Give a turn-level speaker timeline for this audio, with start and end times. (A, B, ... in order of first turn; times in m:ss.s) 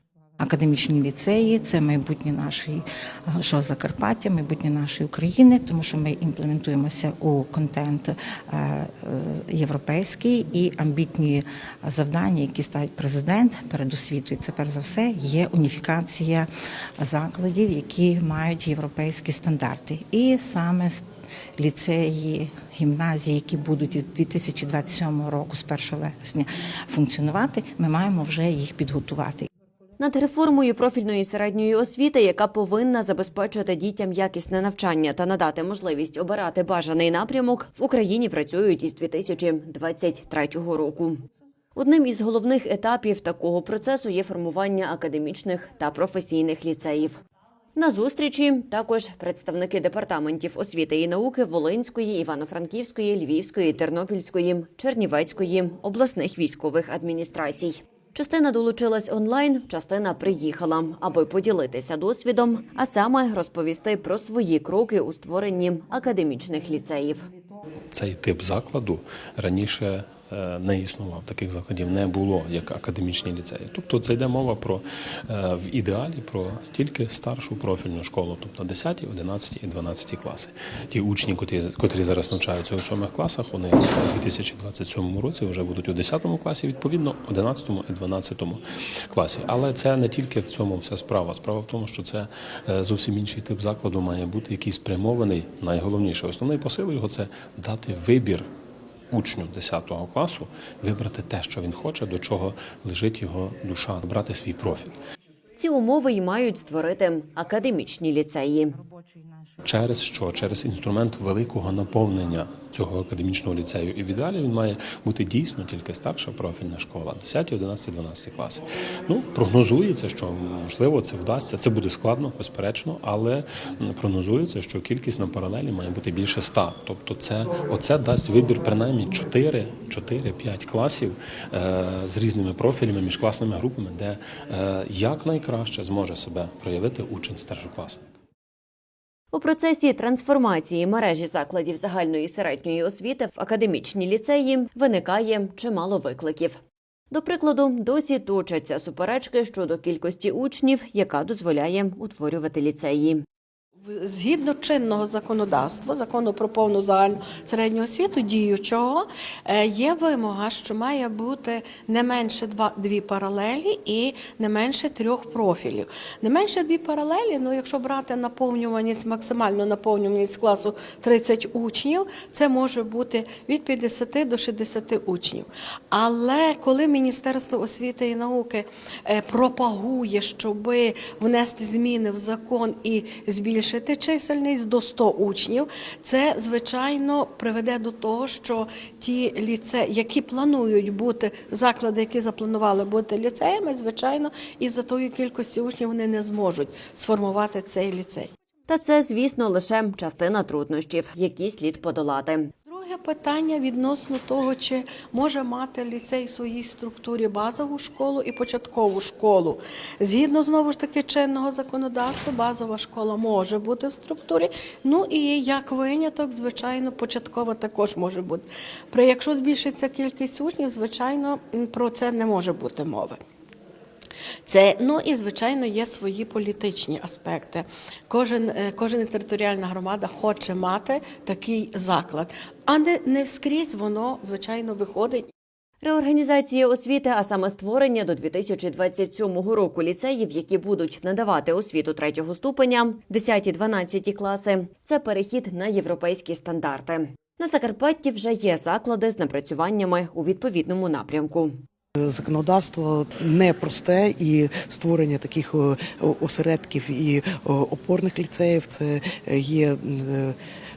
0:00.4-0:16.5 A
0:17.0-0:21.0 A
0:21.6-0:29.5 A
0:30.0-0:41.2 B
0:41.7-0:47.2 B
0:47.8-1:07.2 B
1:07.9-1:38.5 C
1:39.1-1:44.9 C
1:45.6-1:48.8 B
1:48.8-1:49.6 A
1:49.6-2:18.0 C
2:19.3-2:26.6 B
2:27.1-2:33.2 B
2:33.9-3:18.3 D
3:18.7-3:22.5 B
3:22.7-3:43.2 D
3:44.4-3:55.3 D
3:55.8-4:11.5 B
4:12.0-4:20.3 E